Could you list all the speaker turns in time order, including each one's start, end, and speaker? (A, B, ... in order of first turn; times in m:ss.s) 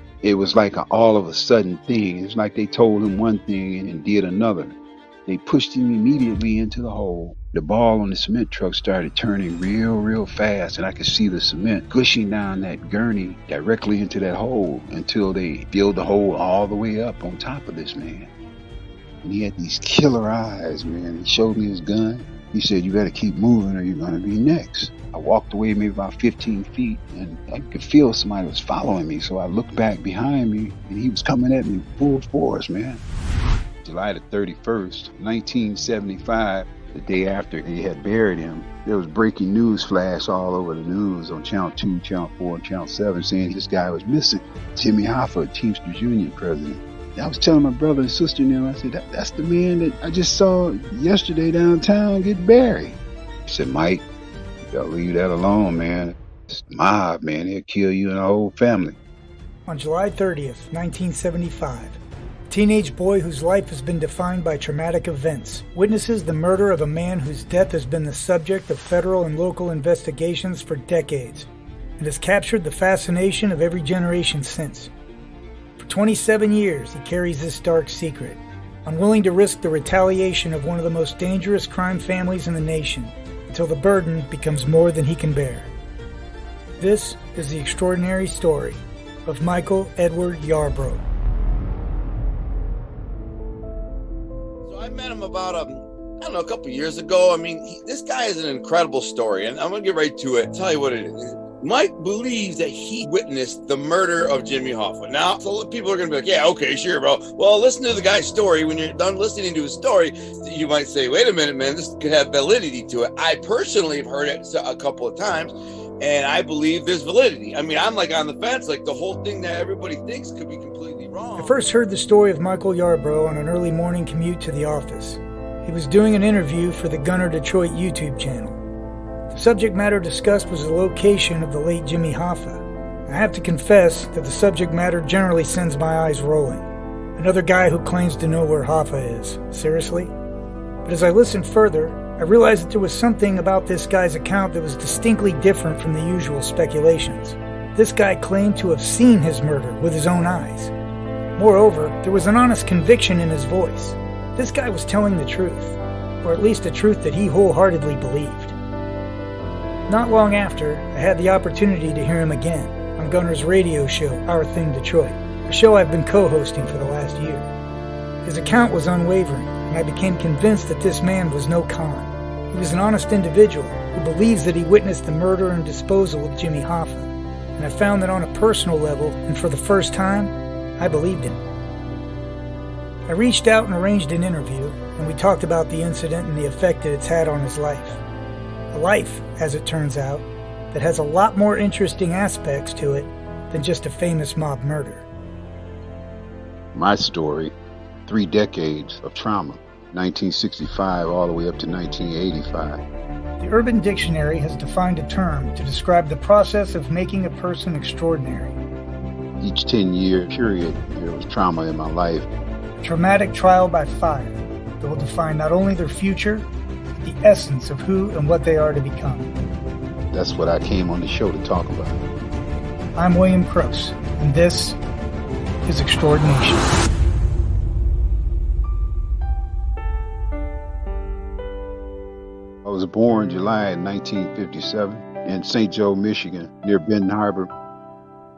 0:00.2-0:04.7 A
0:05.2-0:18.3 A
0:19.2-0:33.0 A
0:33.8-0:54.0 A
0:54.7-0:59.0 A
0:59.6-1:14.9 B
1:15.8-1:25.7 B
1:26.8-1:31.0 B
1:34.6-2:01.6 C
2:01.4-2:08.6 B
2:09.3-2:20.1 B
2:20.8-2:30.7 B
2:31.4-2:38.5 B
2:39.9-2:47.5 B
2:48.2-3:01.4 B
3:03.1-3:08.0 B
3:08.7-3:15.1 B
3:16.7-3:17.5 A
3:18.1-3:22.8 A
3:23.4-3:28.6 B
3:29.4-3:32.3 A
3:32.8-3:36.5 B
3:37.0-3:39.3 B
3:40.1-3:42.0 A
3:43.0-3:44.8 B
3:45.6-3:46.7 B
3:52.6-3:57.5 A